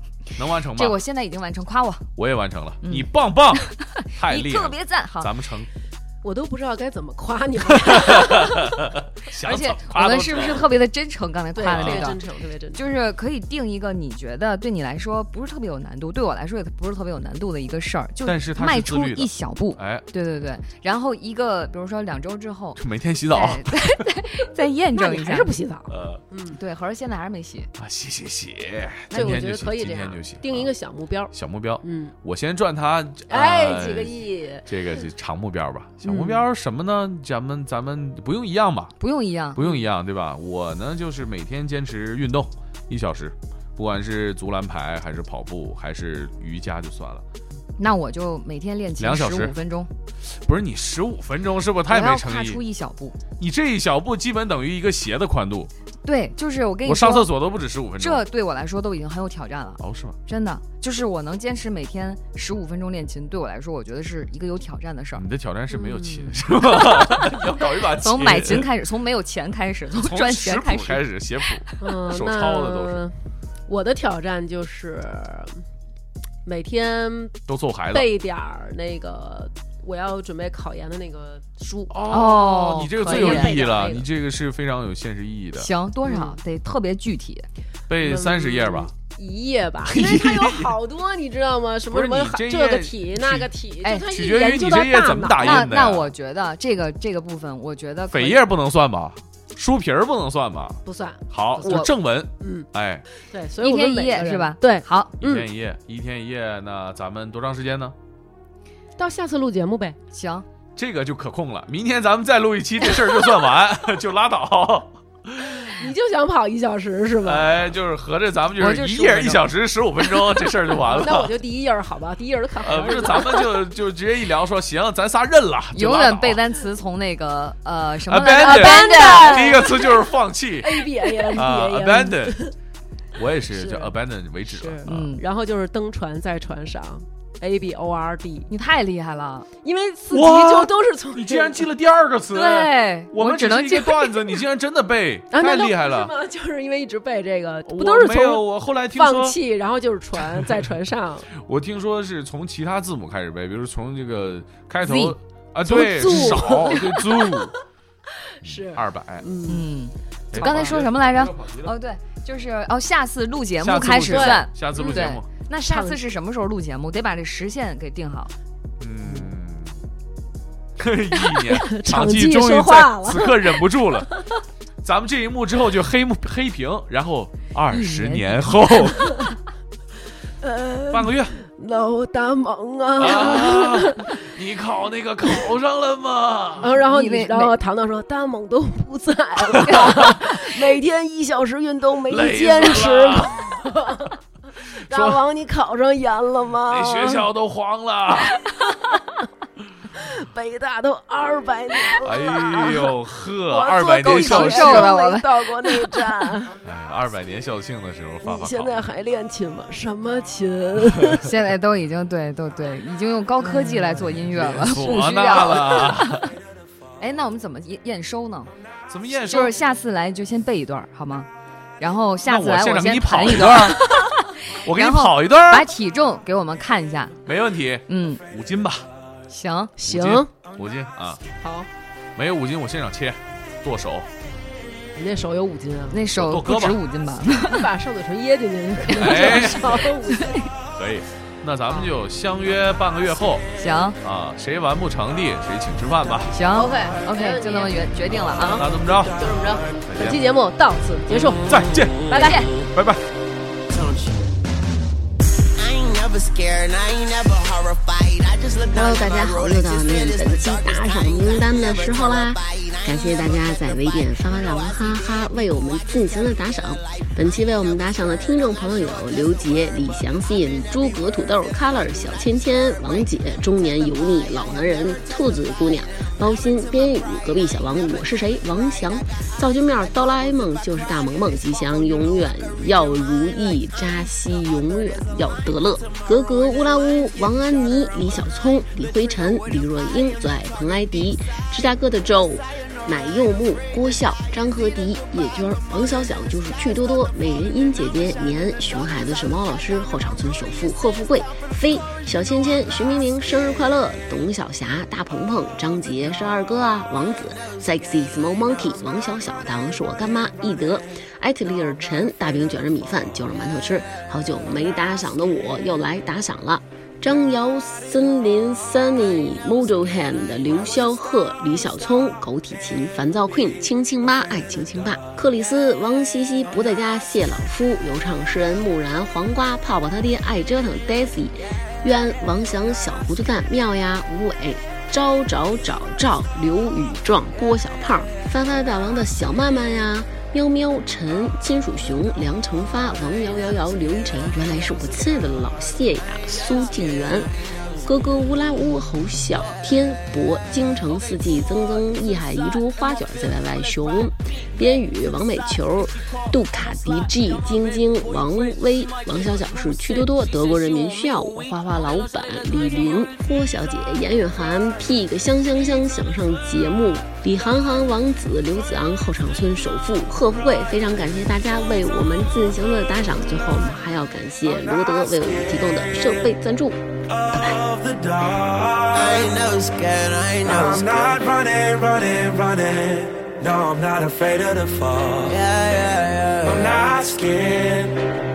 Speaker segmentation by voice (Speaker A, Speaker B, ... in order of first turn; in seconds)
Speaker A: 0.3-1.0, 2.1-5.7, 7.7-10.6, 11.7-12.1, 18.2-20.1, 22.8-24.0, 25.9-26.2, 27.8-30.7, 31.3-39.0, 39.5-47.2, 49.0-49.5, 50.2-52.6, 53.4-55.7, 56.8-58.2, 59.8-60.2, 65.1-68.7, 69.9-73.0, 77.5-78.1, 81.9-85.7, 87.9-88.9, 89.9-90.8, 91.9-93.5, 94.0-96.1, 98.1-103.0, 105.2-108.0, 110.8-115.8, 117.2-121.3, 122.6-126.4, 128.0-132.5, 133.1-135.1, 140.1-146.1, 147.7-149.4, 151.3-157.5, 158.4-159.3, 160.3-161.7, 163.6-165.2, 168.8-169.8, 170.8-174.1, 174.8-179.2, 180.9-181.3, 183.0-186.7, 189.5-190.2, 192.1-193.6, 194.8-195.2, 196.7-198.4, 202.0-204.9, 206.6-208.7, 213.8-216.3, 218.9-219.5, 222.2-224.1, 224.6-225.7, 227.2-228.9, 229.8-231.2, 232.2-234.1, 236.1-236.8, 238.9-239.9, 240.7-243.4, 244.0-246.3, 248.5-249.2, 249.9-250.2, 251.5-252.2, 252.7-253.0
Speaker B: 0.8-2.1, 2.8-5.3, 9.4-12.2, 12.7-22.8, 23.3-25.5, 26.5-27.7, 39.0-39.6, 47.8-49.9, 51.9-53.2, 56.0-57.3, 58.0-65.2, 68.0-71.0, 82.1-83.5, 85.5-87.5, 95.4-98.4, 103.6-105.2, 110.1-110.5, 118.6-119.5, 125.7-129.7, 134.8-135.2, 138.5-139.5, 142.3-144.2, 154.8-155.2, 159.5-168.3, 177.7-179.2, 186.9-187.5, 204.0-206.1, 211.2-216.3, 217.0-218.5, 219.1-221.3, 221.8-227.2, 227.9-228.2, 229.3-229.7, 235.9-237.7, 239.2-239.4, 240.1-240.5, 243.6-244.0, 246.3-248.7, 252.1-252.5
Speaker C: 6.2-8.7, 11.5-12.8, 24.9-26.6, 29.1-32.1, 33.3-34.6, 36.0-36.5, 39.6-39.9, 65.7-66.4, 71.8-75.6, 76.4-82.0, 82.9-84.1, 86.0-86.4, 88.0-95.8, 100.8-102.7, 103.2-105.5, 109.0-110.0, 115.7-117.6, 120.8-123.6, 128.4-132.5, 133.5-133.9, 134.4-138.5, 139.6-141.7, 145.3-151.3, 155.6-157.5, 158.3-159.7, 160.3-160.8, 164.1-166.1, 169.0-169.3, 171.5-174.4, 180.4-184.2, 186.6-194.2, 194.8-197.3, 199.9-206.6, 208.2-211.3, 229.8-230.3, 231.4-231.7, 234.9-236.0, 237.4-240.4, 246.5-251.4, 252.1-252.4
Speaker D: 255.5-262.9, 378.9-381.2, 385.3-386.8
Speaker E: 258.7-376.8, 377.3-377.6
Speaker F: 374.6-376.1, 377.1-379.4, 380.4-385.4, 386.4-388.0